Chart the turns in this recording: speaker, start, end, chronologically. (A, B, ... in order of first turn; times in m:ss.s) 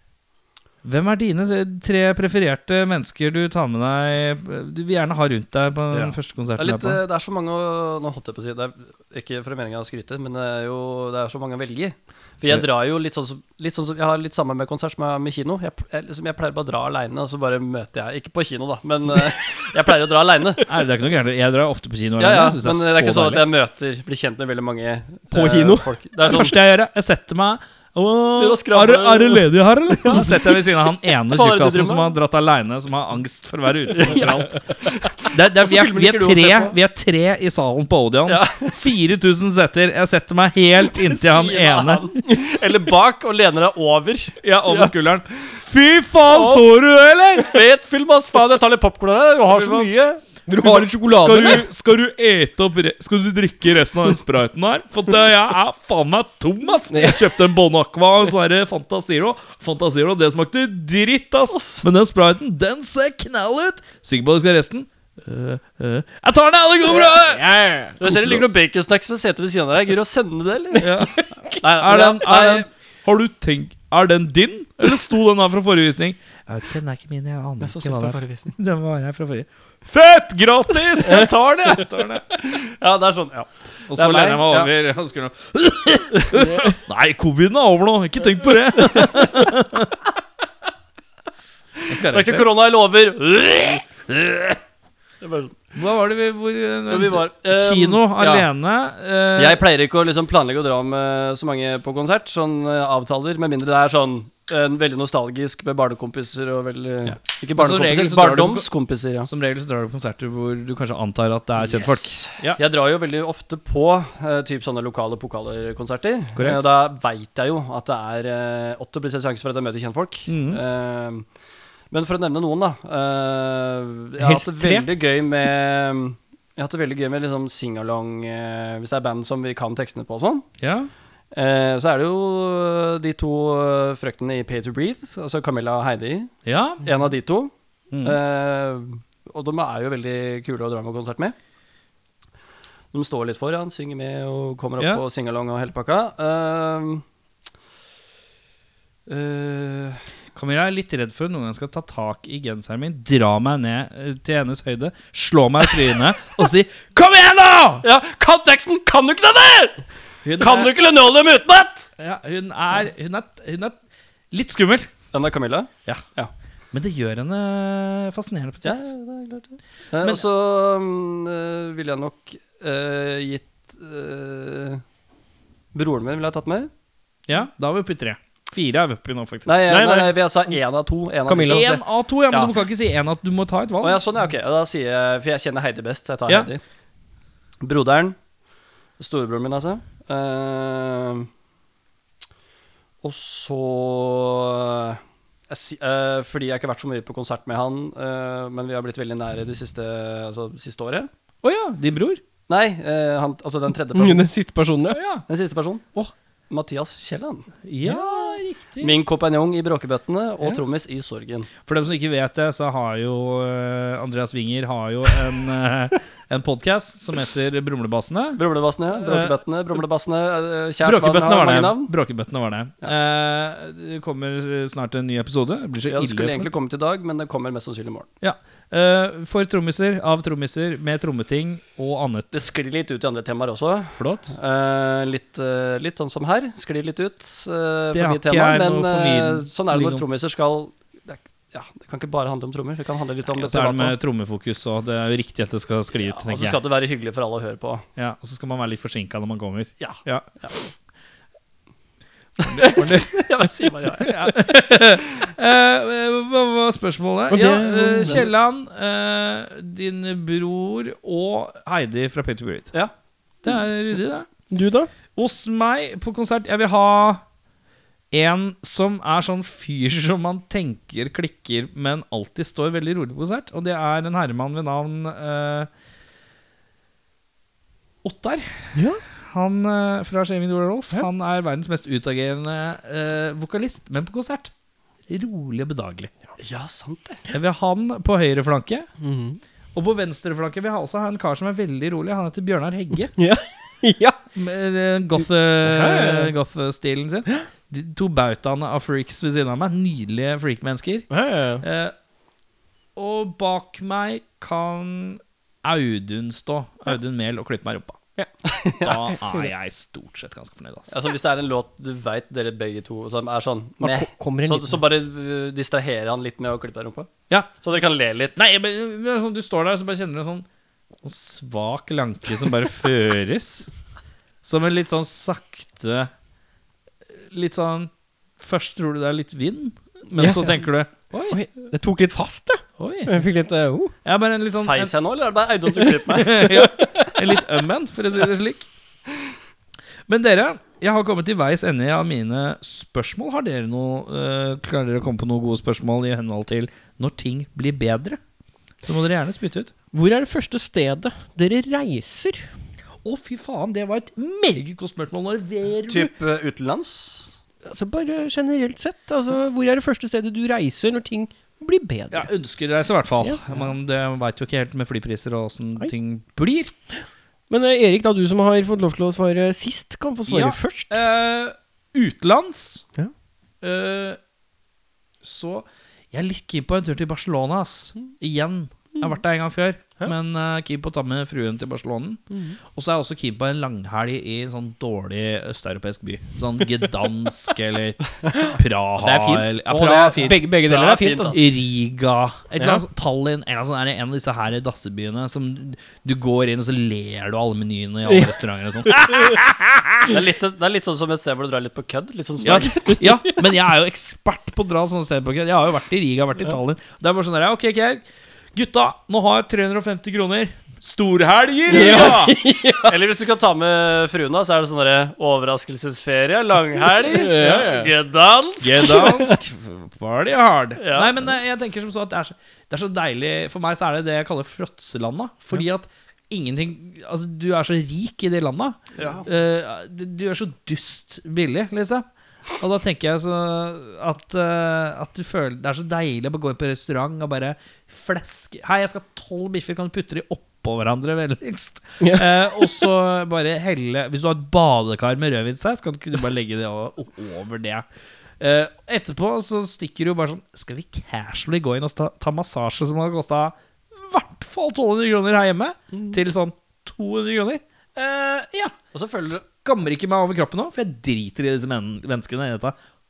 0:00.8-0:07.0 A
0:05.9-0:20.7 B
0:20.7-0:23.5 A
0:22.2-0:26.6 B
0:25.3-0:25.9 C
0:26.2-0:34.6 A
0:28.4-0:30.6 B
0:31.2-0:32.2 B
0:34.0-0:36.8 B
0:35.2-0:42.2 A
0:38.3-0:38.8 B
0:40.9-0:44.9 B
0:44.4-0:47.6 A
0:46.3-0:46.6 B
0:47.4-0:50.2 B
0:49.5-0:49.9 A
0:50.5-0:51.7 C
0:50.6-1:08.5 A
0:56.9-0:57.2 C
1:07.0-1:08.0 C
1:08.0-1:11.1 B
1:10.8-1:22.2 A
1:11.2-1:11.6 C
1:11.6-1:12.7 B
1:17.6-1:18.6 B
1:21.0-1:24.7 B
1:23.9-1:30.0 A
1:31.9-1:32.5 A
1:31.9-1:33.8 B
1:34.1-1:34.6 A
1:35.2-1:35.6 B
1:35.8-1:39.6 A
1:36.9-1:38.5 B
1:39.4-1:49.3 B
1:47.0-1:48.7 A
1:49.2-1:52.6 A
1:51.6-2:01.3 B
1:56.4-1:56.6 A
2:00.3-2:00.6 A
2:01.9-2:10.5 B
2:04.2-2:04.9 C
2:10.6-2:10.9 A
2:11.3-2:16.3 B
2:16.4-2:16.8 A
2:16.8-2:17.5 B
2:17.9-2:18.2 A
2:18.0-2:21.4 B
2:22.9-2:27.0 B
2:29.1-2:30.0 B
2:30.3-2:37.9 A
2:37.8-2:39.8 B
2:40.2-2:40.7 A
2:40.3-2:41.9 B
2:42.0-2:43.8 A
2:44.3-2:44.9 A
2:45.1-2:46.3 B
2:46.7-2:48.9 A
2:48.6-2:54.8 B
2:55.7-2:56.7 B
2:57.3-2:59.8 A
2:59.5-3:01.8 B
2:59.7-3:00.5 C
3:01.3-3:01.8 C
3:01.5-3:04.0 A
3:03.8-3:06.6 B
3:07.6-3:08.2 B
3:09.0-3:11.3 B
3:13.0-3:21.1 B
3:21.4-3:22.2 A
3:22.5-3:24.3 B
3:24.0-3:25.0 C
3:24.9-3:25.2 A
3:25.3-3:25.9 B
3:26.5-3:27.5 B
3:27.6-3:29.0 A
3:28.8-3:31.5 B
3:31.6-3:38.4 A
3:38.4-3:41.9 B
3:39.0-3:39.4 A
3:40.8-3:46.5 A
3:45.9-3:48.1 B
3:48.2-3:52.4 A
3:52.3-4:04.0 B
3:54.0-3:54.3 A
3:57.9-4:00.0 A
4:03.4-4:06.6 A
4:06.0-4:07.9 B
4:08.0-4:10.3 A
4:09.8-4:10.6 B
4:12.4-4:13.4 A
4:12.4-4:14.3 B
4:14.0-4:22.7 A
4:17.3-4:18.3 C
4:23.4-4:24.3 A
4:24.5-4:24.9 C
4:25.2-4:27.2 A
4:28.1-4:35.7 A
4:38.0-4:44.5 A
4:38.8-4:39.0 C
4:45.1-4:46.1 A
4:46.4-4:47.2 B
4:47.3-4:48.9 A
4:49.0-4:49.4 C
4:49.7-4:53.1 A
4:53.2-4:54.2 C
4:54.3-5:02.0 A
4:55.6-4:56.3 C
5:01.1-5:01.6 C
5:03.0-5:08.0 A
5:08.4-5:09.1 B
5:08.8-5:10.9 A
5:10.9-5:18.4 B
5:13.8-5:14.8 C
5:18.4-5:20.5 A
5:21.0-5:23.7 A
5:24.4-5:26.1 A
5:27.1-5:31.4 A
5:30.2-5:30.6 C
5:31.3-5:33.9 C
5:32.8-5:33.2 A
5:34.0-5:34.9 A
5:34.6-5:36.7 B
5:36.1-5:38.7 A
5:36.6-5:37.1 C
5:40.1-5:48.2 A
5:48.8-5:49.7 A
5:49.9-5:52.5 C
5:53.0-5:56.1 A
5:55.9-5:57.4 B
5:57.6-6:02.3 C
6:02.1-6:06.7 A
6:03.2-6:03.6 C
6:07.5-6:11.0 C
6:10.3-6:12.8 A
6:13.6-6:14.2 A
6:15.2-6:30.5 A
6:29.0-6:31.4 C
6:30.6-6:31.4 B
6:31.3-6:40.1 A
6:38.1-6:39.3 C
6:40.1-6:43.0 B
6:42.4-6:52.4 A
6:43.0-6:43.4 C
6:51.7-6:53.0 C
6:52.9-6:59.4 B
6:57.0-6:57.9 C
6:58.6-7:12.0 A
7:00.8-7:01.2 B
7:09.0-7:09.3 B
7:12.6-7:27.9 A
7:22.0-7:22.3 C
7:28.4-7:42.8 A
7:38.9-7:39.4 B